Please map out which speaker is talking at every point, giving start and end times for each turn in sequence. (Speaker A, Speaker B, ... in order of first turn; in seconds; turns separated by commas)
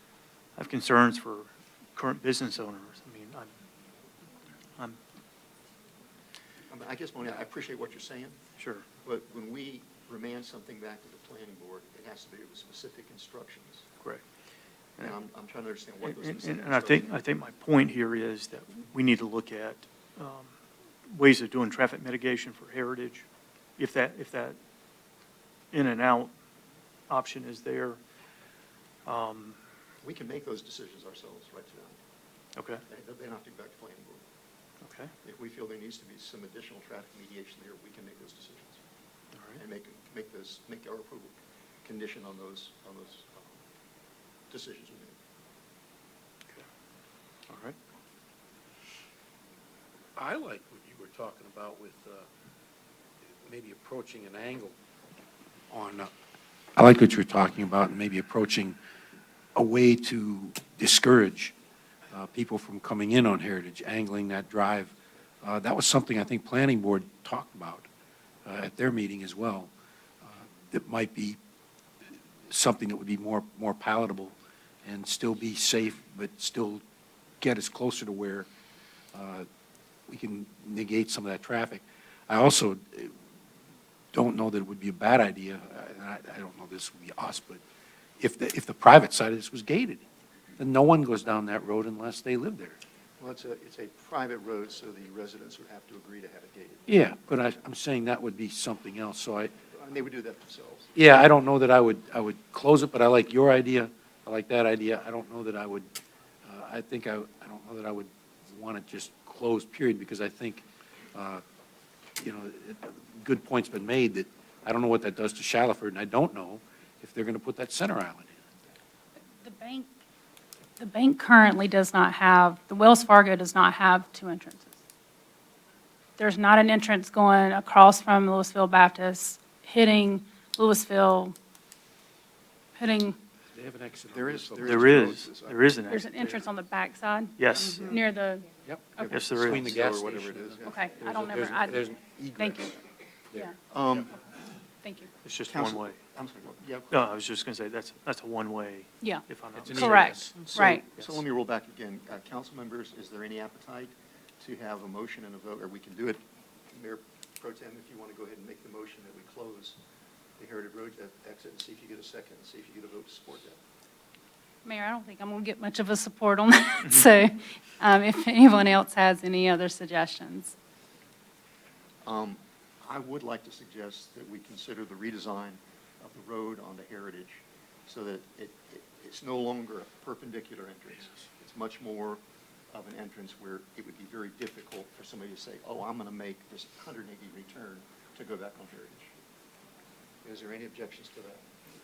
Speaker A: 0.6-3.5, Speaker B: 6.7-8.4, Speaker A: 8.6-8.9, Speaker B: 9.0-13.9, Speaker B: 15.0-17.1, Speaker A: 16.0-20.5, Speaker A: 21.1-23.3, Speaker A: 23.8-24.6, Speaker A: 25.7-26.3, Speaker A: 27.1-28.0, Speaker A: 29.1-29.6, Speaker B: 30.0-32.0, Speaker A: 32.5-32.9, Speaker B: 32.9-34.2, Speaker A: 34.8-35.1, Speaker B: 35.2-38.8, Speaker A: 39.4-39.6, Speaker B: 39.6-43.6, Speaker B: 44.5-45.2, Speaker A: 47.5-47.8, Speaker C: 50.2-52.3, Speaker C: 53.5-54.7, Speaker C: 55.7-56.1, Speaker C: 56.8-58.8, Speaker C: 59.6-61.5, Speaker C: 62.1-67.9, Speaker C: 68.5-69.7, Speaker C: 70.3-71.4, Speaker C: 72.5-74.3, Speaker C: 74.8-76.8, Speaker C: 77.4-78.5, Speaker C: 79.1-79.5, Speaker C: 80.1-83.1, Speaker C: 84.1-87.6, Speaker C: 88.2-90.0, Speaker C: 90.6-92.8, Speaker B: 93.2-96.8, Speaker C: 96.9-99.5, Speaker B: 99.7-100.9, Speaker C: 101.0-105.9, Speaker C: 106.5-111.4, Speaker C: 112.2-118.4, Speaker D: 119.4-119.9, Speaker D: 120.8-124.8, Speaker D: 126.2-131.3, Speaker D: 132.8-133.2, Speaker C: 133.5-135.2, Speaker B: 134.1-135.7, Speaker A: 134.6-136.4, Speaker D: 135.9-139.1, Speaker A: 137.4-137.9, Speaker C: 138.7-142.8, Speaker B: 139.0-141.0, Speaker A: 139.1-139.6, Speaker D: 140.6-142.8, Speaker B: 143.7-144.1, Speaker D: 144.8-145.1, Speaker A: 145.2-146.0, Speaker B: 145.5-146.9, Speaker A: 146.9-151.2, Speaker D: 149.0-150.8, Speaker C: 149.5-150.7, Speaker B: 150.4-156.2, Speaker B: 156.7-159.8, Speaker B: 160.4-163.6, Speaker D: 164.6-170.6, Speaker B: 172.1-189.1, Speaker B: 190.2-191.4